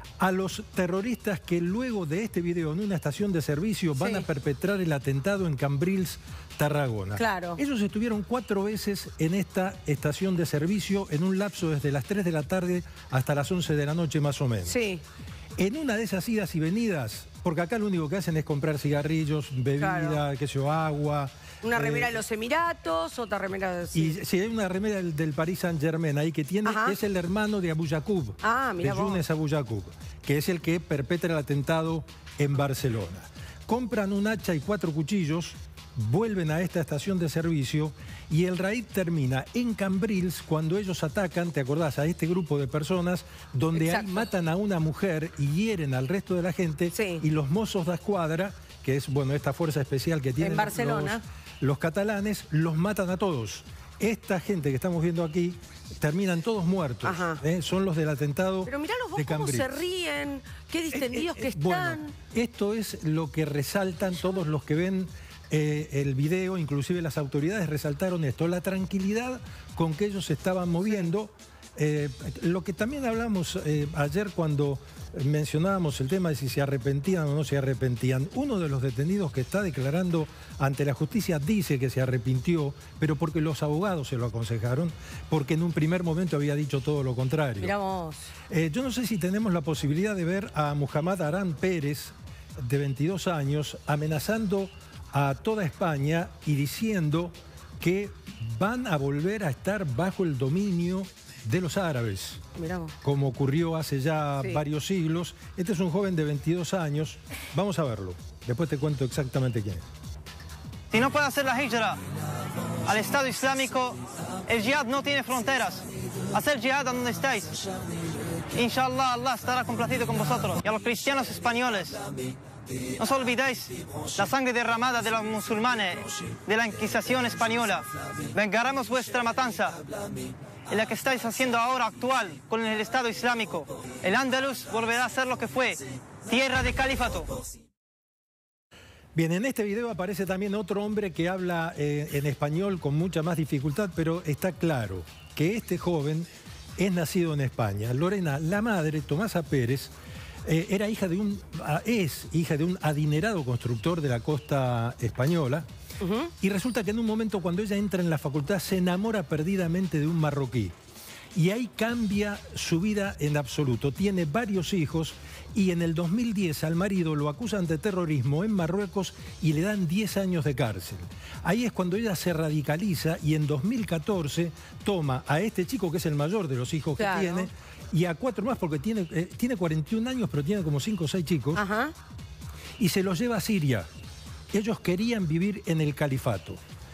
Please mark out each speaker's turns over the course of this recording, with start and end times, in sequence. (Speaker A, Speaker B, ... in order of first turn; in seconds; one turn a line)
Speaker A: 0.2-14.8
Speaker B: 4.0-4.2
Speaker B: 7.2-7.6
Speaker B: 14.7-15.0
Speaker A: 15.6-22.1
Speaker B: 19.8-20.2
Speaker B: 21.6-24.1
Speaker A: 23.9-59.8
Speaker B: 26.6-26.9
Speaker B: 28.4-29.2
Speaker B: 43.7-44.3
Speaker B: 46.9-47.2
Speaker B: 50.4-51.2
Speaker B: 57.0-57.4
Speaker B: 58.6-62.1
Speaker A: 60.9-87.7
Speaker B: 87.6-88.3
Speaker A: 88.5-102.4
Speaker B: 102.5-102.9
Speaker A: 103.0-109.8
Speaker C: 110.9-112.0
Speaker C: 112.8-117.6
Speaker C: 118.5-122.0
Speaker C: 123.0-129.8
Speaker C: 130.7-137.3
Speaker A: 139.1-149.9
Speaker A: 150.4-155.7
Speaker B: 156.0-156.3
Speaker A: 156.4-160.7
Speaker A: 161.3-181.6
Speaker B: 177.0-177.5
Speaker B: 181.5-181.9
Speaker A: 182.8-183.9
Speaker A: 184.5-186.6